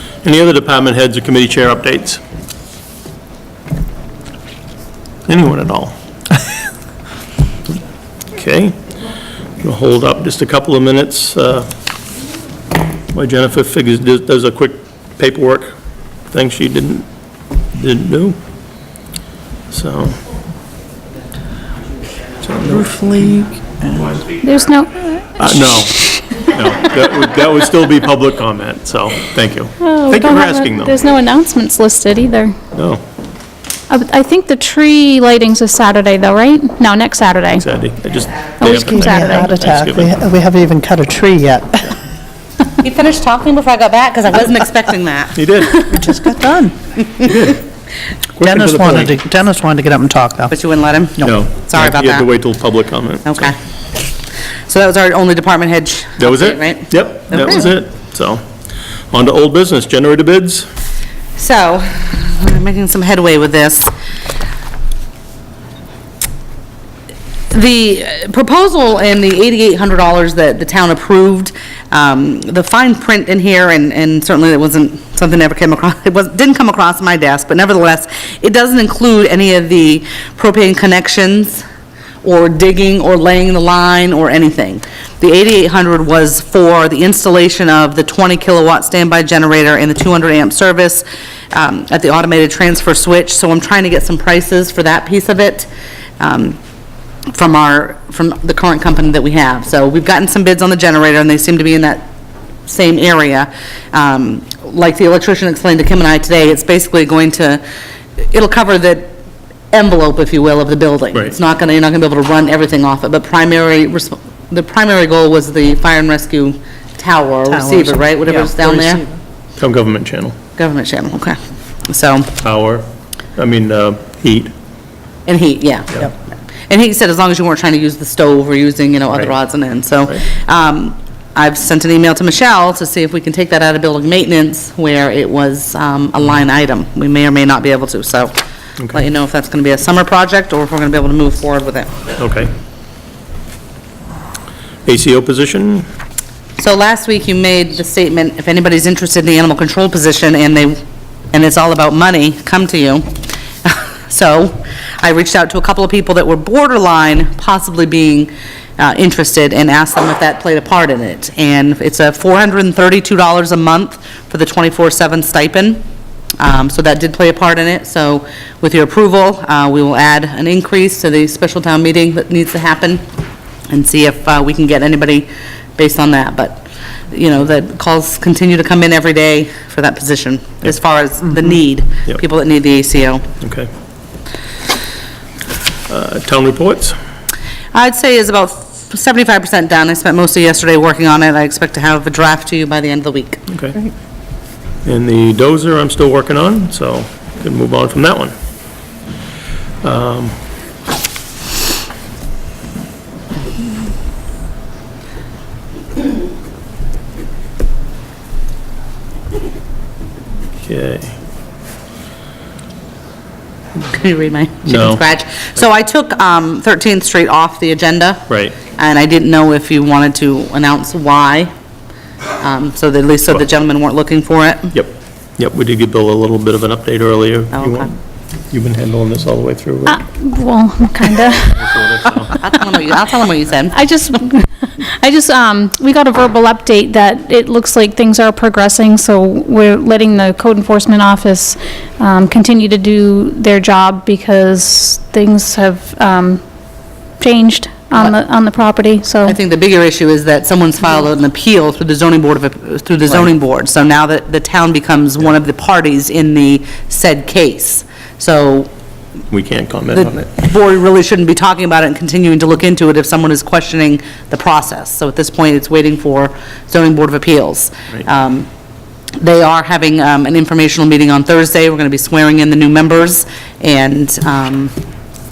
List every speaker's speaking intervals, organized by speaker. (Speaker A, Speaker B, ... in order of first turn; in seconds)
Speaker A: 0.2-2.2, 5.3-6.0, 8.3-8.8, 9.6-11.7, 13.1-15.8, 16.3-17.1, 17.7-18.4, 19.7-20.2, 22.4-22.9, 25.4-31.0, 32.7-33.0, 37.5-40.1, 45.3-45.9, 47.2-47.6, 48.4-49.1, 51.2-53.5, 56.2-58.4, 59.1-60.7, 119.6-120.3, 122.4-124.5, 129.1-129.3, 142.2-142.5, 144.8-145.9, 183.4-183.7, 185.9-187.0, 193.5-193.8, 194.8-198.3, 199.8-200.4, 210.6-211.1, 214.7-215.0, 218.3-218.6, 224.7-228.0, 228.5-230.0, 231.5-232.3, 259.3-260.3
Speaker B: 22.6-24.2, 38.6-41.9, 45.9-46.7, 48.4-50.5, 117.5-119.1
Speaker C: 24.4-25.7, 29.8-32.5, 33.9-37.6, 38.6-39.5, 230.2-231.8, 233.8-246.4, 247.2-249.3
Speaker D: 42.8-45.9, 50.5-52.3, 53.2-53.6, 54.7-57.7, 61.4-63.9, 67.5-81.6, 82.2-95.7, 96.2-96.6, 97.3-102.0, 102.7-107.6, 108.3-109.1, 109.7-119.0, 120.5-121.4, 121.9-122.3, 125.2-126.1, 126.7-138.4, 138.9-142.0, 146.6-150.8, 151.3-153.1, 153.6-165.8, 166.4-173.0, 173.7-183.2, 187.7-193.4, 213.9-221.5, 222.4-224.7, 227.5-227.9, 232.4-233.8, 249.2-258.7, 259.9-268.5, 269.2-274.7